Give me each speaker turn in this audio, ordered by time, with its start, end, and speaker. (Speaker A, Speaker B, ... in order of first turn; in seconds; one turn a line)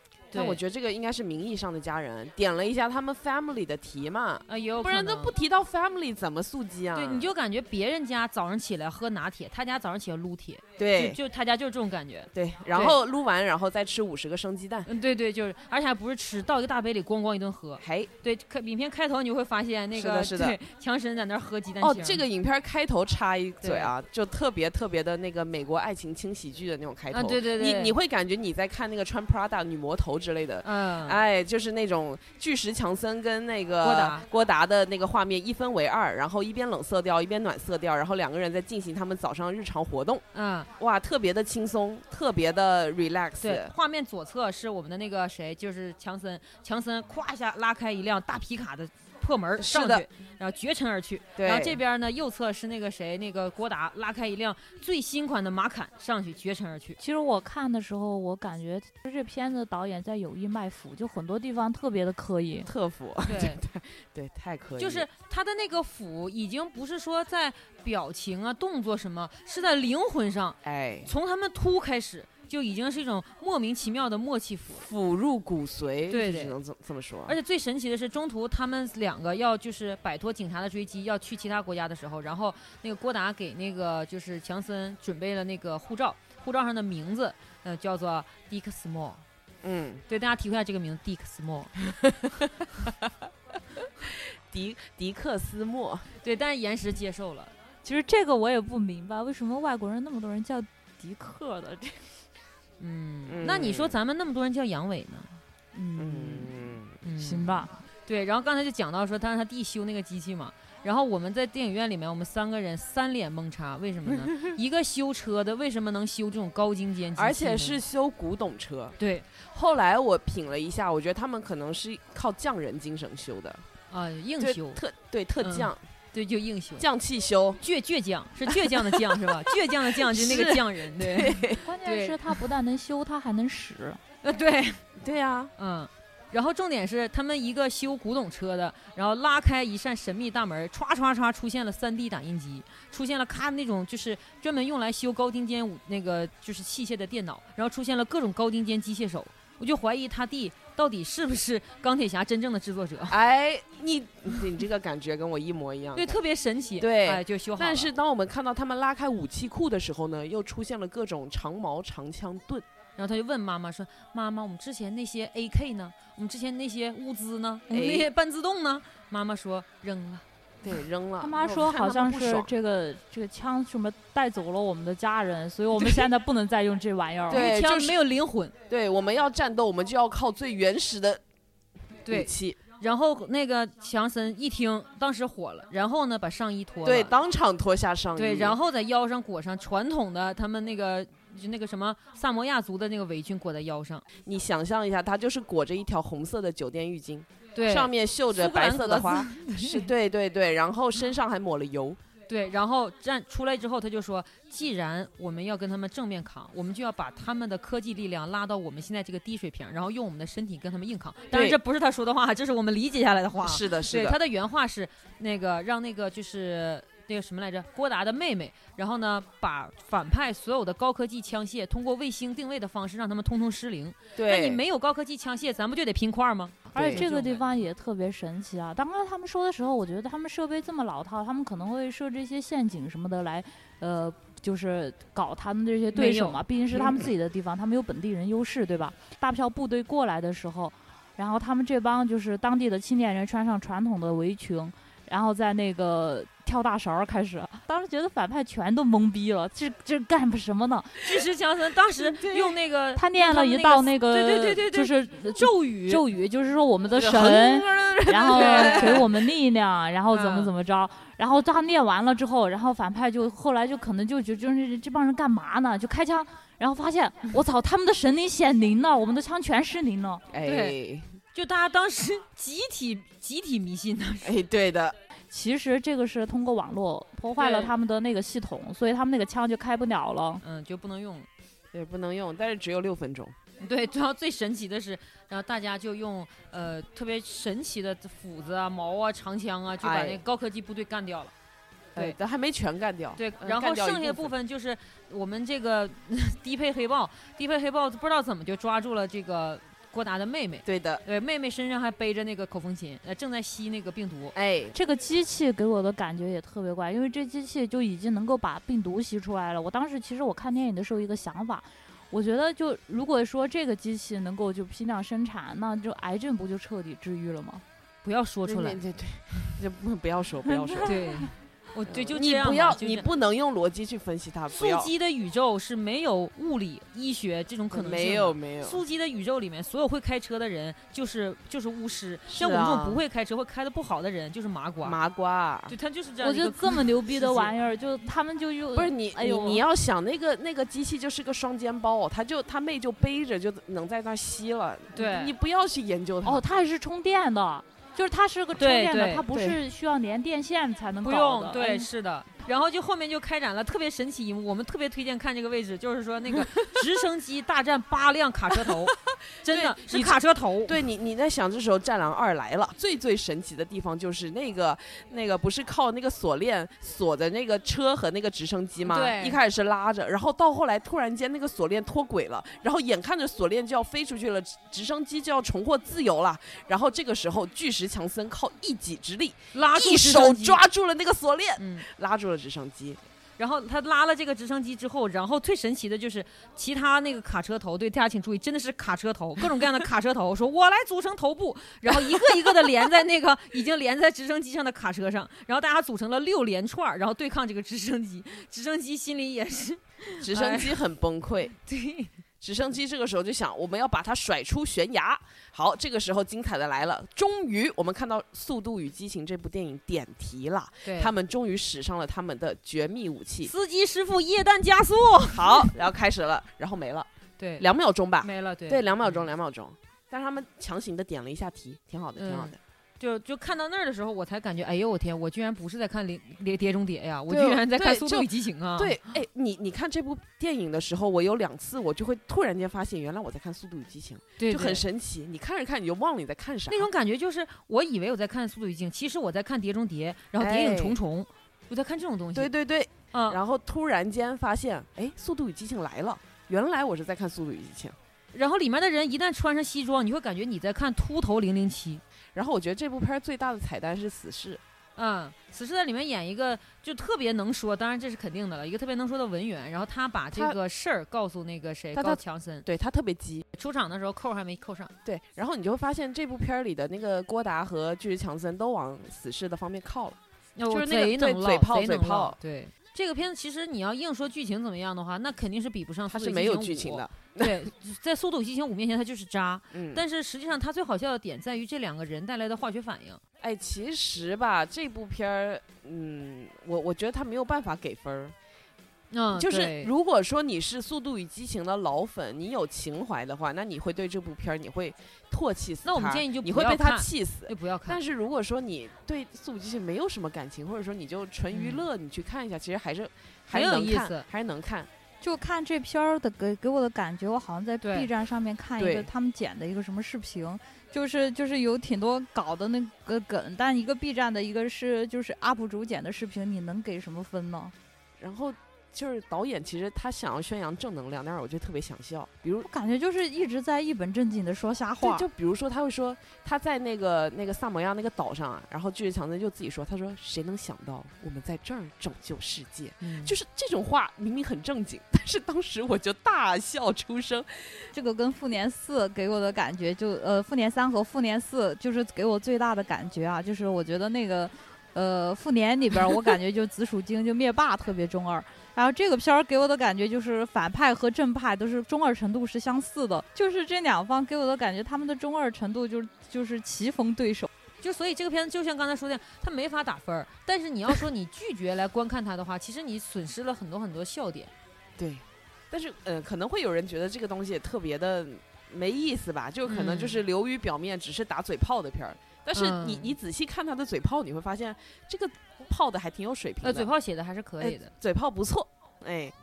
Speaker A: 0.3-0.6
Speaker B: 0.3-7.3
Speaker A: 4.5-5.3
Speaker A: 6.9-13.0
Speaker B: 10.8-11.2
Speaker B: 12.3-14.9
Speaker A: 14.9-22.2
Speaker B: 17.8-18.1
Speaker B: 19.9-20.6
Speaker B: 21.8-40.2
Speaker A: 23.6-23.9
Speaker A: 27.1-28.0
Speaker A: 30.6-31.2
Speaker A: 33.8-34.3
Speaker A: 40.3-40.7
Speaker B: 40.8-43.7
Speaker A: 43.4-57.0
Speaker B: 49.6-50.1
Speaker B: 51.4-51.8
Speaker C: 57.0-62.7
Speaker B: 62.6-65.1
Speaker A: 63.3-63.6
Speaker A: 64.8-74.9
Speaker B: 70.6-71.1
Speaker B: 74.8-77.4
Speaker A: 76.1-76.6
Speaker A: 77.3-89.2
Speaker B: 89.6-90.0
Speaker A: 90.1-91.8
Speaker B: 92.0-92.9
Speaker B: 94.0-96.1
Speaker A: 96.2-97.5
Speaker C: 97.8-102.1
Speaker A: 102.8-105.4
Speaker B: 103.3-104.0
Speaker C: 105.7-107.8
Speaker B: 106.0-107.0
Speaker A: 107.0-117.8
Speaker B: 117.2-123.6
Speaker A: 119.0-119.3
Speaker A: 123.9-124.8
Speaker B: 124.4-125.8
Speaker A: 125.4-126.9
Speaker B: 126.8-127.6
Speaker A: 127.6-132.4
Speaker B: 128.5-131.6
Speaker C: 131.6-134.0
Speaker A: 134.2-134.8
Speaker B: 135.0-135.5
Speaker A: 135.6-153.2
Speaker B: 153.1-156.2
Speaker A: 156.0-157.9
Speaker B: 156.8-162.7
Speaker A: 163.0-170.2
Speaker B: 167.7-168.1
Speaker B: 170.6-172.5
Speaker C: 171.2-177.5
Speaker B: 177.3-178.0
Speaker A: 177.3-178.5
Speaker B: 178.7-181.2
Speaker A: 182.1-187.2
Speaker B: 182.1-182.6
Speaker B: 186.8-188.6
Speaker A: 188.2-194.1
Speaker B: 194.2-202.0
Speaker A: 197.6-199.9
Speaker A: 202.3-227.5
Speaker B: 211.3-211.6
Speaker B: 213.4-214.2
Speaker B: 224.2-224.6
Speaker B: 226.7-227.1
Speaker C: 226.8-251.1
Speaker A: 235.9-236.4
Speaker A: 251.0-256.0
Speaker B: 252.2-252.6
Speaker C: 253.0-270.2
Speaker B: 257.0-259.1
Speaker A: 258.3-259.1
Speaker A: 260.1-260.5
Speaker B: 270.3-271.1
Speaker A: 270.4-270.8
Speaker A: 271.3-274.4
Speaker B: 274.2-275.0
Speaker C: 275.3-280.4
Speaker A: 277.4-277.7
Speaker A: 280.4-281.3
Speaker B: 281.7-283.4
Speaker A: 283.6-291.3
Speaker B: 289.8-290.2
Speaker B: 291.9-294.3
Speaker A: 293.2-304.4
Speaker B: 300.7-301.0
Speaker B: 304.4-304.8
Speaker C: 304.7-317.6
Speaker A: 318.0-318.8
Speaker B: 318.4-321.3
Speaker A: 320.8-323.1
Speaker B: 321.9-324.9
Speaker A: 324.5-335.0
Speaker B: 327.7-328.8
Speaker B: 332.3-333.0
Speaker B: 334.8-335.8
Speaker A: 335.7-337.5
Speaker C: 336.2-339.6
Speaker B: 338.7-346.4
Speaker A: 344.9-345.4
Speaker C: 346.2-351.9
Speaker A: 348.6-349.6
Speaker A: 351.0-360.8
Speaker B: 358.7-358.9
Speaker B: 359.4-383.0
Speaker A: 368.9-369.4
Speaker A: 379.5-380.6
Speaker A: 381.6-381.9
Speaker A: 383.4-400.8
Speaker B: 400.2-401.6
Speaker A: 401.7-402.1
Speaker B: 402.4-413.5
Speaker A: 410.9-411.1
Speaker A: 413.5-415.7
Speaker B: 415.3-422.6
Speaker A: 417.4-417.7
Speaker A: 418.2-419.2
Speaker A: 422.2-429.0
Speaker B: 427.3-436.9
Speaker A: 434.4-434.8
Speaker A: 436.7-442.5
Speaker B: 440.4-441.0
Speaker B: 442.4-448.0
Speaker A: 443.1-443.4
Speaker A: 448.3-452.0
Speaker B: 452.4-454.6
Speaker A: 455.0-462.7
Speaker B: 461.9-463.5
Speaker A: 463.6-464.9
Speaker B: 465.1-470.2
Speaker A: 470.6-483.2
Speaker B: 470.7-472.4
Speaker B: 476.1-477.7
Speaker B: 479.7-480.0
Speaker B: 483.4-488.4
Speaker A: 489.1-489.9
Speaker B: 489.4-504.9
Speaker A: 495.9-498.0
Speaker A: 501.5-501.9
Speaker A: 503.5-504.3
Speaker C: 505.2-517.7
Speaker A: 507.8-508.1
Speaker B: 508.8-509.1
Speaker B: 518.2-522.7
Speaker C: 522.7-525.3
Speaker B: 525.0-537.9
Speaker A: 533.0-533.3
Speaker C: 537.9-557.5
Speaker A: 557.8-564.5
Speaker B: 565.0-576.9
Speaker A: 569.7-570.2
Speaker A: 572.5-573.1
Speaker A: 576.6-577.9
Speaker B: 577.6-579.3